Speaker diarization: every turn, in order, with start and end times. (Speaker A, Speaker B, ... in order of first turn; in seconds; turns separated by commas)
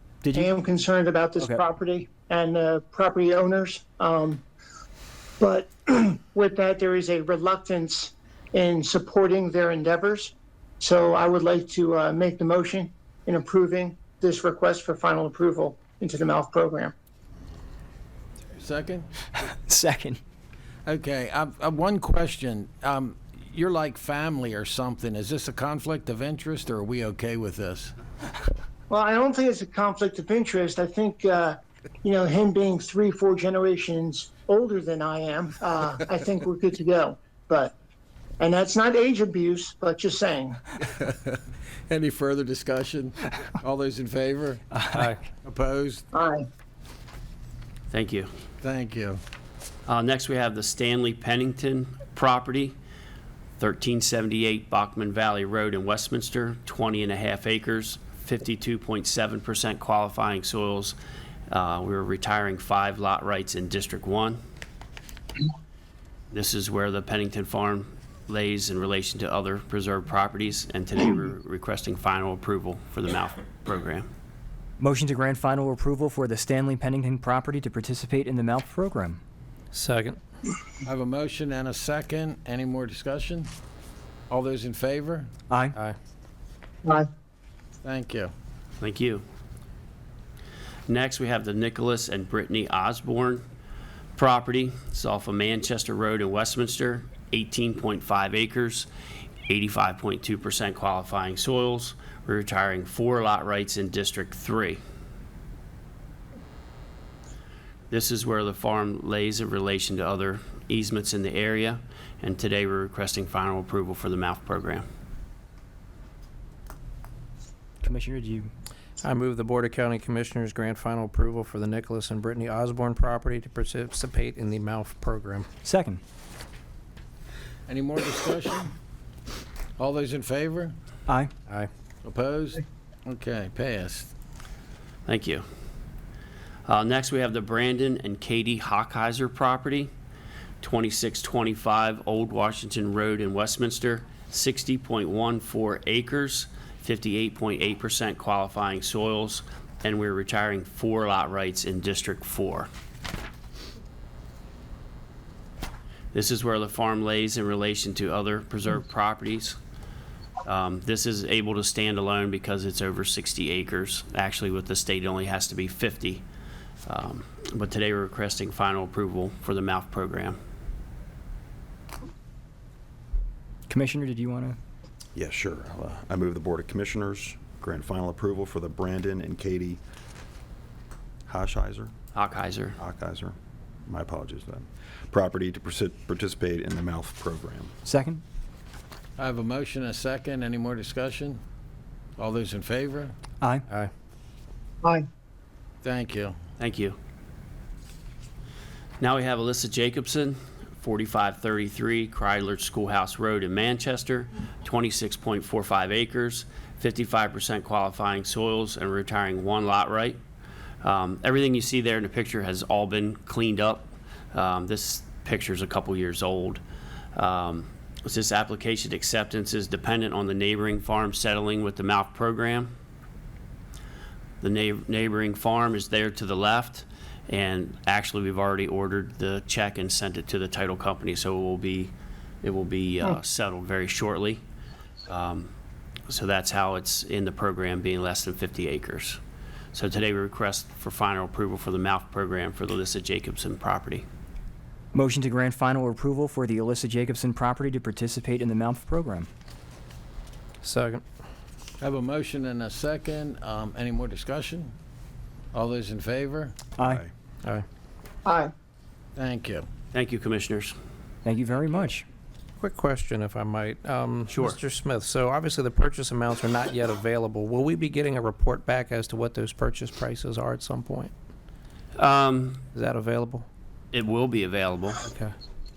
Speaker A: 0.2-0.5, Speaker B: 0.3-4.4, Speaker B: 5.4-16.9, Speaker C: 18.6-19.1, Speaker A: 19.4-20.2, Speaker C: 20.9-27.9, Speaker B: 28.9-37.8, Speaker B: 38.4-40.6, Speaker C: 40.8-44.8, Speaker C: 45.4-46.1, Speaker B: 46.1-46.5, Speaker D: 47.9-48.3, Speaker C: 48.6-49.2, Speaker D: 49.9-52.8, Speaker D: 53.6-61.0, Speaker D: 61.5-64.4, Speaker D: 66.3-74.1, Speaker A: 74.8-79.2, Speaker E: 79.7-80.2, Speaker C: 80.9-83.5, Speaker C: 84.3-85.3, Speaker A: 85.5-85.8, Speaker C: 87.8-88.3, Speaker D: 88.8-89.2, Speaker D: 90.9-93.4, Speaker D: 94.2-98.9, Speaker D: 99.5-104.8, Speaker D: 107.9-114.8, Speaker A: 117.8-118.5, Speaker E: 119.0-125.5, Speaker A: 125.6-126.0, Speaker C: 127.7-128.7, Speaker C: 129.8-130.8, Speaker C: 132.0-134.1, Speaker D: 135.1-135.4, Speaker D: 136.7-139.9, Speaker D: 140.6-152.7, Speaker D: 156.1-159.6, Speaker D: 160.4-166.2, Speaker D: 166.9-170.4, Speaker A: 173.7-174.6, Speaker F: 175.2-179.8, Speaker F: 181.3-181.9, Speaker D: 182.2-182.8, Speaker F: 182.8-183.4, Speaker F: 183.9-187.7, Speaker A: 187.8-188.2, Speaker C: 189.2-191.4, Speaker C: 192.2-193.2, Speaker A: 193.4-193.7, Speaker C: 195.8-196.4, Speaker D: 196.6-197.0, Speaker D: 199.0-210.2, Speaker D: 210.8-216.6, Speaker D: 217.2-222.7, Speaker D: 224.4-234.4, Speaker D: 235.1-235.5, Speaker D: 236.1-239.2, Speaker D: 239.7-244.1, Speaker A: 244.9-249.3, Speaker E: 250.6-251.0, Speaker C: 251.8-254.7, Speaker C: 255.5-256.6, Speaker A: 256.8-257.0, Speaker F: 256.8-257.1, Speaker B: 258.3-258.5, Speaker C: 259.2-259.7, Speaker D: 259.9-260.7, Speaker A: 261.2-262.1, Speaker E: 262.6-271.1, Speaker D: 264.3-264.6, Speaker D: 272.0-272.6, Speaker E: 272.7-273.5, Speaker D: 273.9-275.0, Speaker E: 275.0-275.4